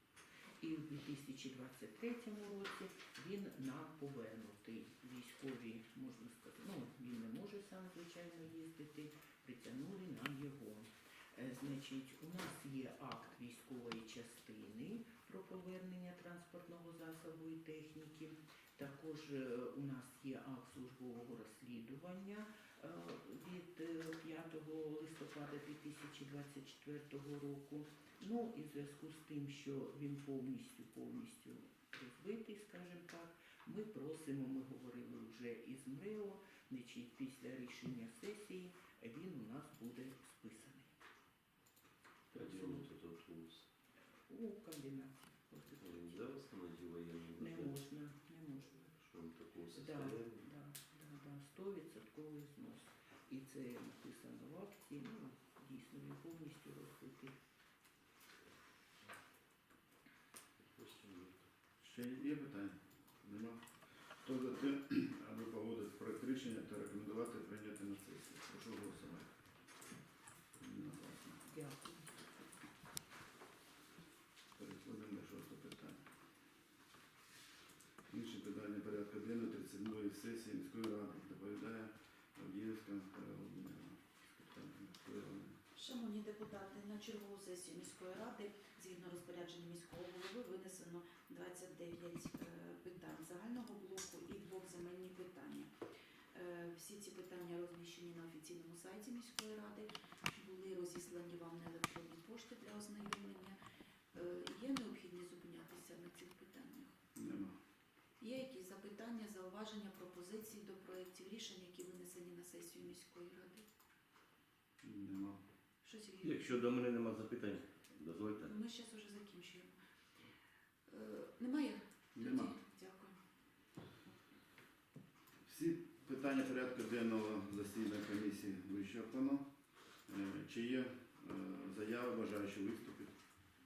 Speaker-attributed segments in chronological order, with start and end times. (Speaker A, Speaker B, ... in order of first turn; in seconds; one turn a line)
Speaker A: 0.6-40.9
Speaker A: 42.3-42.9
Speaker B: 42.3-43.7
Speaker A: 44.3-46.2
Speaker B: 45.8-47.9
Speaker A: 47.4-49.0
Speaker B: 49.0-50.5
Speaker A: 49.7-57.4
Speaker B: 60.7-61.4
Speaker C: 61.8-63.6
Speaker C: 64.2-69.3
Speaker C: 70.6-71.6
Speaker A: 71.5-72.1
Speaker C: 74.6-76.0
Speaker C: 78.1-85.6
Speaker D: 85.8-95.7
Speaker D: 96.3-103.6
Speaker D: 104.1-107.0
Speaker C: 107.2-107.5
Speaker D: 108.2-113.7
Speaker C: 114.8-115.4
Speaker D: 115.8-116.7
Speaker E: 116.2-118.5
Speaker D: 118.4-119.8
Speaker D: 120.9-123.2
Speaker C: 122.2-122.5
Speaker C: 125.5-129.5
Speaker C: 130.1-133.1